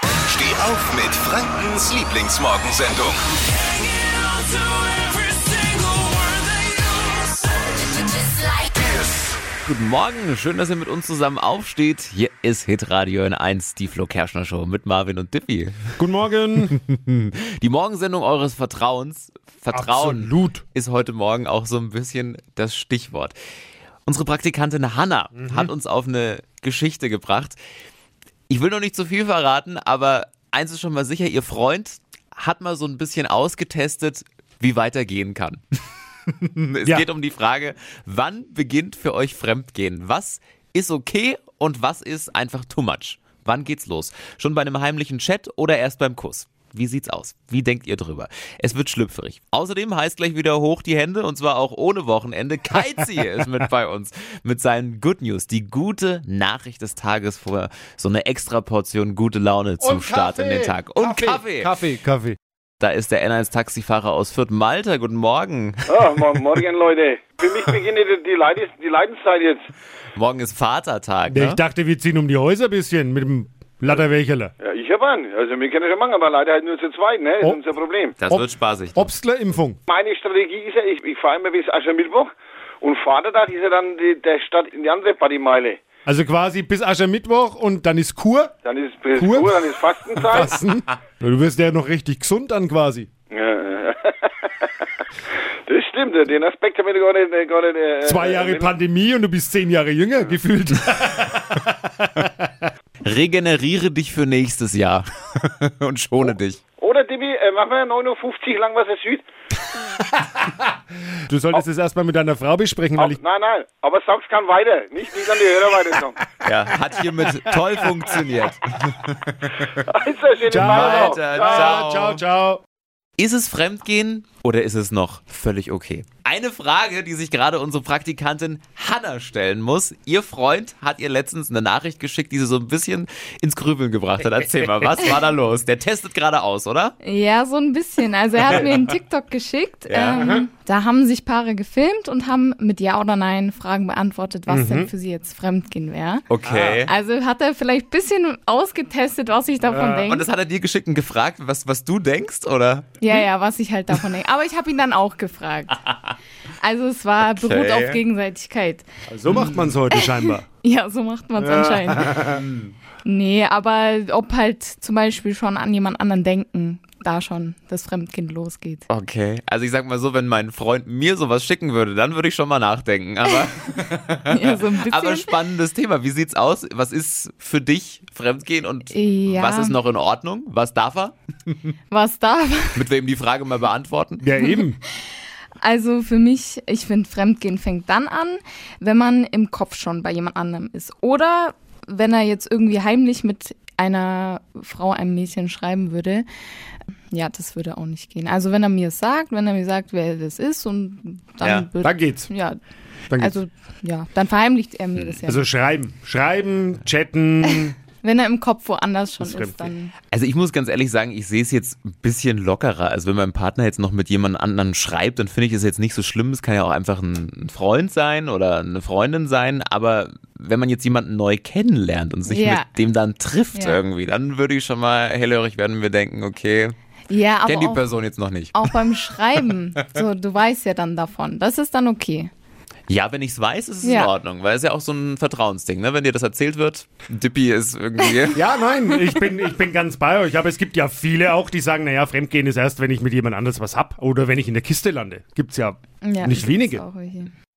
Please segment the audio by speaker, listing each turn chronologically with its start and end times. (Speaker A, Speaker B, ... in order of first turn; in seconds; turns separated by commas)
Speaker A: 0.3-3.2, Speaker B: 9.6-15.9, Speaker C: 16.0-16.7, Speaker B: 16.8-23.4, Speaker C: 19.7-20.6, Speaker B: 24.1-27.6, Speaker C: 25.4-25.7, Speaker B: 28.5-35.6, Speaker B: 36.5-61.8, Speaker C: 59.8-62.4, Speaker B: 62.8-65.9, Speaker D: 65.9-69.7, Speaker B: 70.2-71.6, Speaker C: 71.3-74.5, Speaker D: 74.6-78.2, Speaker B: 78.2-79.1, Speaker C: 78.2-79.8, Speaker D: 79.9-82.3, Speaker D: 82.8-85.8, Speaker C: 86.0-88.5, Speaker D: 88.6-90.6, Speaker C: 89.2-93.1, Speaker D: 93.3-94.5, Speaker D: 95.7-98.8, Speaker C: 98.0-102.7, Speaker B: 103.0-106.6, Speaker D: 106.8-109.2, Speaker C: 111.3-113.2, Speaker D: 113.0-116.2, Speaker B: 116.4-119.7, Speaker D: 119.8-121.8, Speaker C: 120.5-122.6, Speaker B: 120.6-122.2, Speaker B: 123.2-137.0, Speaker E: 137.0-146.2, Speaker B: 138.4-138.7, Speaker B: 139.9-140.2, Speaker C: 140.2-140.4, Speaker C: 144.5-144.9, Speaker B: 146.3-146.9, Speaker C: 146.5-146.8, Speaker E: 146.8-150.2, Speaker C: 149.7-150.0, Speaker B: 150.1-153.0, Speaker E: 153.0-155.8, Speaker E: 156.6-158.8, Speaker B: 157.3-158.0, Speaker C: 159.1-160.4, Speaker B: 159.3-159.8, Speaker E: 159.9-162.3, Speaker C: 161.4-162.3, Speaker B: 162.2-162.7, Speaker E: 163.0-168.8, Speaker B: 168.9-181.7, Speaker E: 174.3-175.3, Speaker E: 178.9-179.8, Speaker E: 181.9-182.8, Speaker B: 182.7-184.2, Speaker C: 184.2-184.8, Speaker E: 185.6-196.2, Speaker E: 197.1-202.6, Speaker B: 201.4-201.7, Speaker C: 201.8-202.3, Speaker E: 203.2-205.4, Speaker B: 204.9-205.2, Speaker C: 205.3-207.7, Speaker E: 207.5-209.9, Speaker C: 209.2-209.7, Speaker B: 210.1-226.7, Speaker E: 222.3-222.7, Speaker E: 223.5-223.8, Speaker E: 227.1-227.8, Speaker B: 227.4-228.7, Speaker E: 228.5-232.3, Speaker B: 232.9-238.4, Speaker E: 233.8-234.1, Speaker C: 238.3-246.8, Speaker E: 246.0-247.3